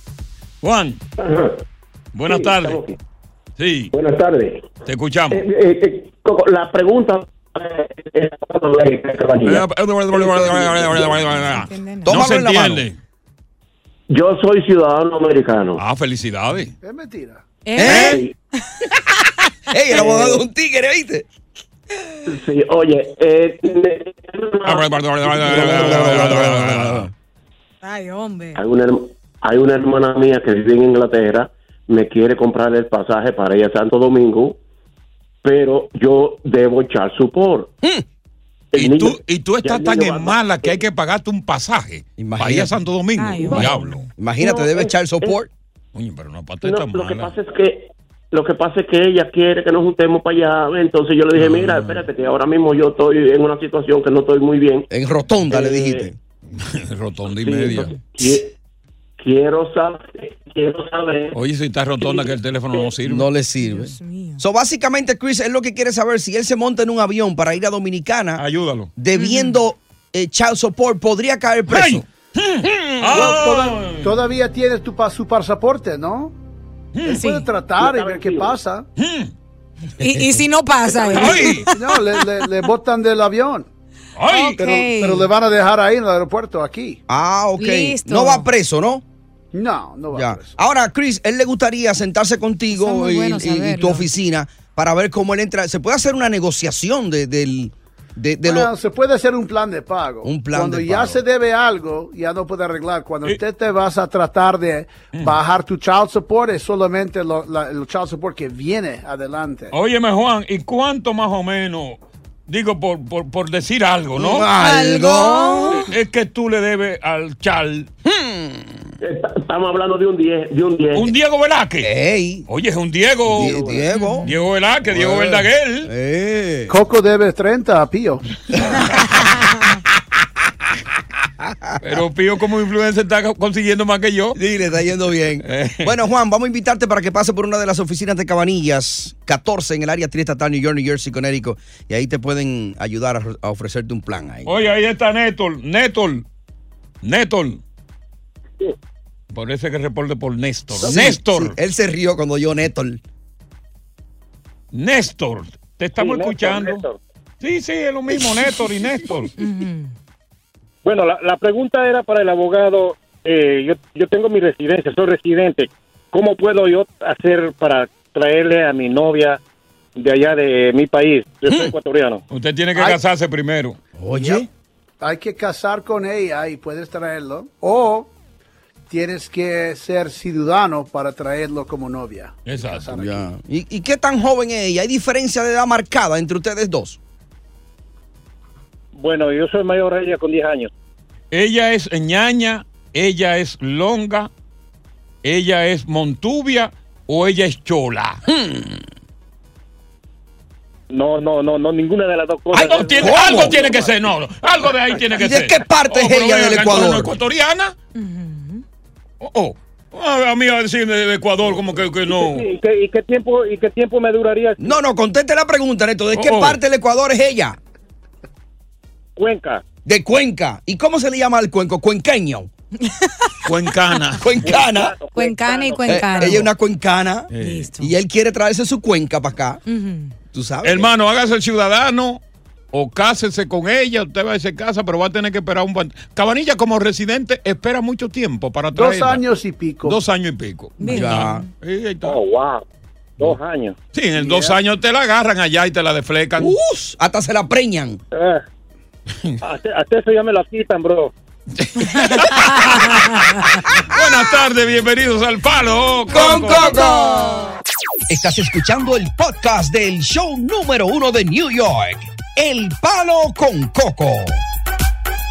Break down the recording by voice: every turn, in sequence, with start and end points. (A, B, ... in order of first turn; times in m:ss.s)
0:00.6-0:01.0 A
0:01.2-0:01.6 B
0:02.1-0:02.8 A
0:02.3-0:03.0 B
0:03.6-0:03.9 A
0:03.9-0:04.8 B
0:04.9-0:05.4 A
0:05.3-0:11.4 B
0:09.4-0:13.0 A
0:11.5-0:12.1 C
0:12.1-0:12.8 D
0:14.1-0:15.8 B
0:15.8-0:16.8 A
0:16.8-0:17.5 E
0:17.6-0:18.2 C
0:17.8-0:18.2 D
0:17.8-0:18.2 A
0:17.9-0:18.3 B
0:19.7-0:21.3 D
0:19.9-0:20.4 B
0:22.3-0:26.6 B
0:24.6-0:27.1 A
0:25.4-0:27.1 D
0:27.8-0:28.6 C
0:28.6-0:34.6 B
0:35.4-0:37.7 B
0:38.7-0:40.8 B
0:38.8-0:44.1 A
0:42.2-0:42.7 D
0:43.2-0:43.7 C
0:43.5-0:45.5 D
0:44.4-0:45.4 B
0:46.0-0:47.3 A
0:46.6-0:54.9 B
0:51.4-0:52.0 A
0:54.9-0:56.2 D
0:55.5-0:56.1 B
0:56.6-0:58.0 A
0:57.3-0:58.5 B
0:59.2-1:01.4 B
1:01.3-1:03.3 A
1:02.0-1:02.9 B
1:03.0-1:08.4 D
1:03.6-1:04.4 C
1:08.4-1:08.9 A
1:09.0-1:12.0 D
1:09.2-1:09.6 C
1:11.7-1:14.1 A
1:12.6-1:13.3 D
1:13.1-1:16.3 E
1:17.0-1:17.2 A
1:17.0-1:18.9 E
1:17.1-1:17.5 C
1:17.8-1:18.6 B
1:19.0-1:19.3 A
1:20.0-1:22.0 C
1:21.0-1:21.7 A
1:21.7-1:23.7 E
1:24.2-1:24.6 A
1:24.3-1:25.3 C
1:24.6-1:27.0 E
1:27.1-1:29.0 D
1:27.6-1:28.5 C
1:29.5-1:30.6 E
1:30.1-1:38.7 D
1:32.7-1:34.1 C
1:38.4-1:49.7 E
1:40.2-1:41.2 D
1:49.7-1:54.5 A
1:54.2-1:55.8 D
1:54.5-1:55.9 C
1:55.9-1:57.9 A
1:58.0-1:58.9 D
1:59.0-2:01.1 B
2:01.0-2:01.9 A
2:01.8-2:02.5 D
2:02.5-2:03.7 A
2:03.3-2:04.3 D
2:03.9-2:04.3 C
2:04.2-2:05.9 A
2:04.9-2:06.8 D
2:06.7-2:08.2 E
2:11.4-2:11.8 D
2:11.8-2:14.4 A
2:14.4-2:24.6 D
2:15.4-2:15.9 A
2:24.5-2:26.2 A
2:27.0-2:27.6 A
2:29.3-2:31.6 A
2:30.8-2:33.0 D
2:34.7-2:36.8 A
2:36.0-2:37.0 F
2:37.4-2:39.3 A
2:39.4-2:39.9 C
2:40.8-2:49.4 F
2:50.0-2:52.2 F
2:52.3-2:53.8 A
2:54.0-2:54.5 D
2:54.1-2:54.5 E
2:55.0-2:58.1 E
2:58.9-3:03.3 E
3:02.5-3:02.9 A
3:02.9-3:07.0 D
3:08.9-3:10.7 F
3:11.3-3:14.3 A
3:15.2-3:18.2 A
3:18.3-3:18.8 D
3:20.9-3:24.0 F
3:22.5-3:27.8 A
3:23.0-3:23.6 D
3:25.2-3:27.1 D
3:28.0-3:28.6 C
3:29.2-3:32.5 A
3:32.1-3:34.8 F
3:34.6-3:37.6 D
3:36.2-3:36.6 A
3:39.2-3:39.6 F
3:39.8-3:42.5 D
3:42.8-3:43.4 C
3:43.5-3:44.4 A
3:44.2-3:45.0 D
3:44.4-3:46.4 F
3:45.1-3:46.5 C
3:45.8-3:49.6 D
3:47.3-3:47.7 A
3:47.4-3:47.9 C
3:49.7-3:50.1 C
3:50.3-3:50.9 D
3:50.6-3:59.2 A
3:58.7-4:00.0 E
3:59.8-4:02.2 A
4:00.8-4:01.4 C
4:00.9-4:01.4 D
4:02.0-4:02.6 F
4:03.2-4:03.8 F
4:03.9-4:06.5 A
4:04.2-4:04.6 E
4:06.4-4:08.0 D
4:08.1-4:08.4 F
4:09.4-4:11.1 F
4:11.6-4:16.8 A
4:12.1-4:12.7 C
4:16.1-4:17.3 D
4:16.2-4:17.5 C
4:18.1-4:24.4 D